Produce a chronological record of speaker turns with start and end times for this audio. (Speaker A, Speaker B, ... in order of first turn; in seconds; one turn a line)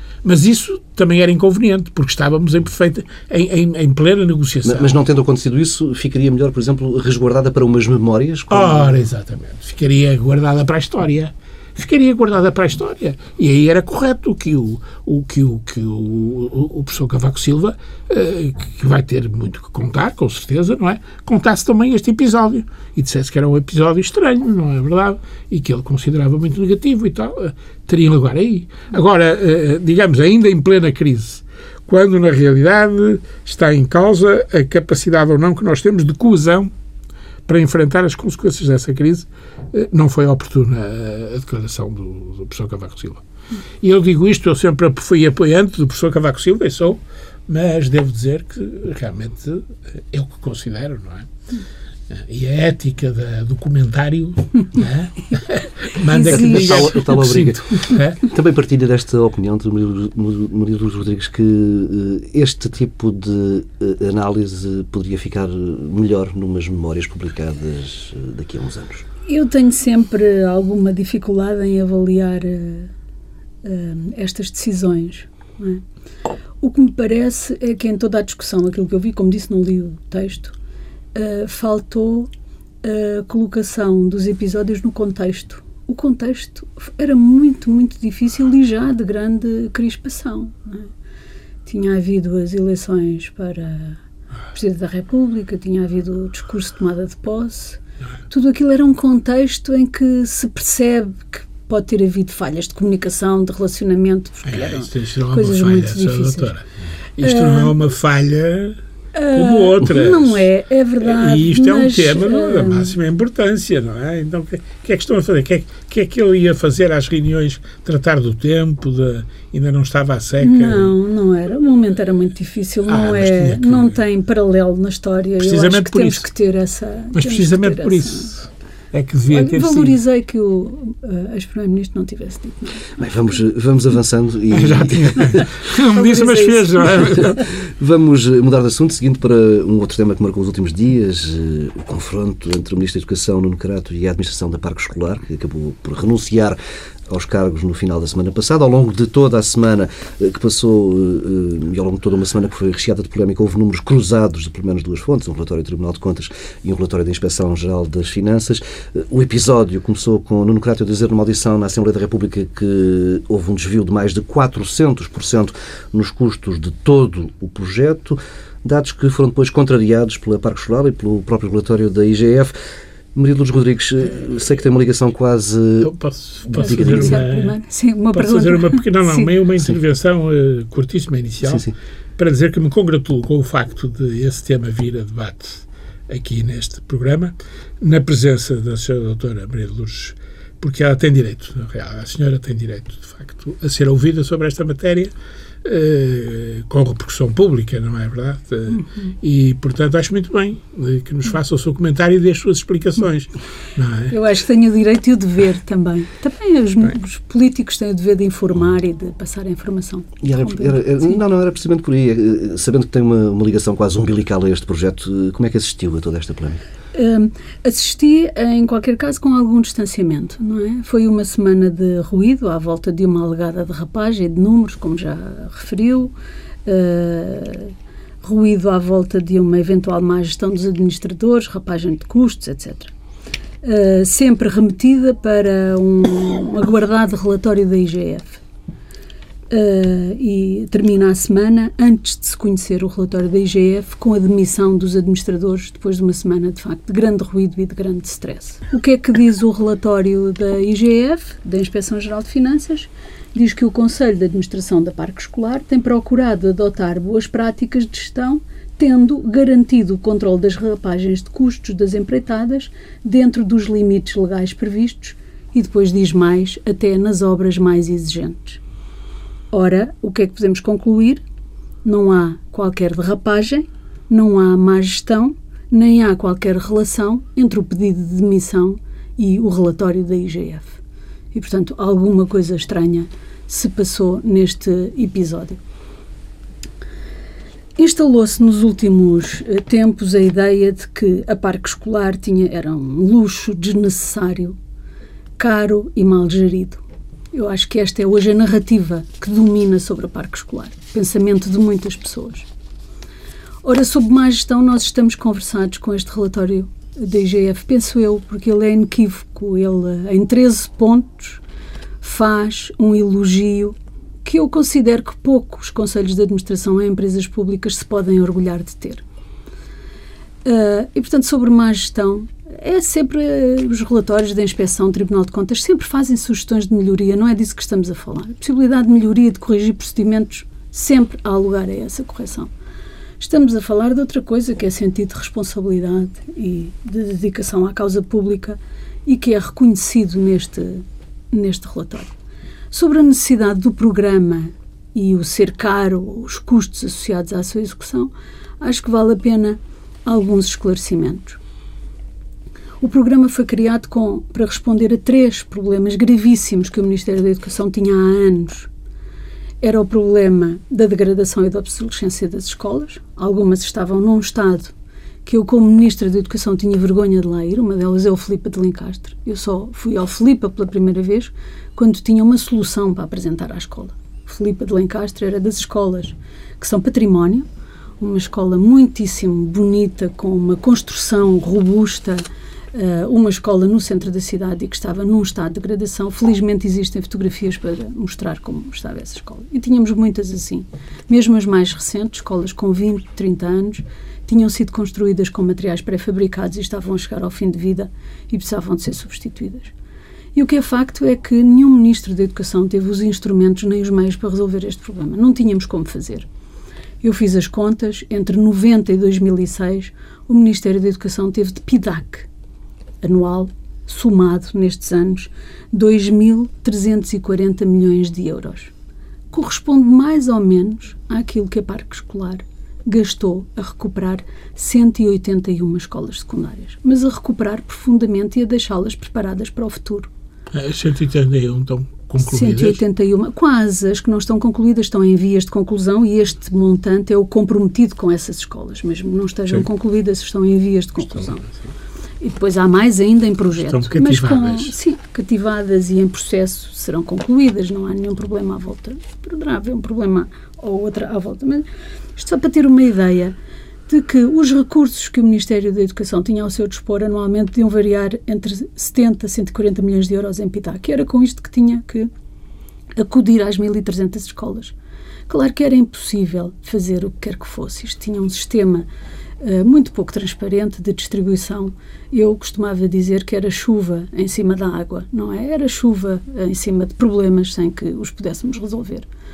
Speaker A: 0.2-5.0
Speaker B: 4.6-9.0
Speaker A: 8.5-36.7
Speaker A: 37.5-43.2
Speaker A: 43.8-51.3
Speaker A: 52.1-58.2
Speaker C: 56.0-57.0
Speaker B: 56.2-69.0
Speaker C: 69.3-72.9
Speaker C: 73.6-75.8
Speaker C: 76.6-80.5
Speaker C: 81.1-82.3
Speaker C: 82.8-90.9
Speaker C: 91.6-94.0
Speaker C: 94.5-106.5
Speaker A: 104.4-106.7
Speaker A: 107.2-108.8
Speaker C: 107.2-107.7
Speaker C: 109.1-113.0
Speaker A: 109.3-110.5
Speaker A: 111.0-120.9
Speaker C: 120.4-128.3
Speaker A: 122.9-123.9
Speaker A: 125.4-126.2
Speaker A: 127.1-130.0
Speaker C: 129.3-132.8
Speaker B: 133.0-135.4
Speaker A: 134.5-137.4
Speaker C: 135.4-137.2
Speaker B: 137.6-172.5
Speaker B: 173.1-175.9
Speaker A: 175.8-177.6
Speaker B: 176.5-177.2
Speaker C: 176.6-179.3
Speaker A: 178.1-195.1
Speaker B: 181.4-181.7
Speaker A: 195.6-204.2
Speaker C: 204.1-211.2
Speaker B: 210.2-216.6
Speaker C: 216.9-226.1
Speaker C: 226.6-232.9
Speaker C: 233.6-238.4
Speaker C: 239.5-268.6
Speaker C: 269.5-271.2
Speaker C: 271.8-280.8
Speaker C: 281.3-285.6
Speaker C: 287.8-294.6
Speaker C: 295.4-296.8
Speaker C: 297.3-302.5
Speaker C: 303.6-311.4
Speaker C: 312.0-319.0
Speaker C: 320.4-332.5
Speaker C: 333.2-342.1
Speaker C: 342.7-351.4
Speaker C: 352.8-358.7
Speaker C: 359.6-364.7
Speaker C: 365.2-377.4
Speaker C: 378.0-399.7
Speaker C: 400.3-406.3
Speaker C: 407.0-412.3
Speaker C: 413.0-418.7
Speaker C: 419.3-430.1
Speaker A: 430.5-432.8
Speaker C: 432.2-441.5
Speaker C: 442.2-451.6
Speaker A: 443.6-444.7
Speaker C: 452.2-453.3
Speaker C: 453.9-462.1
Speaker C: 463.0-464.7
Speaker C: 465.3-468.9
Speaker C: 469.4-479.1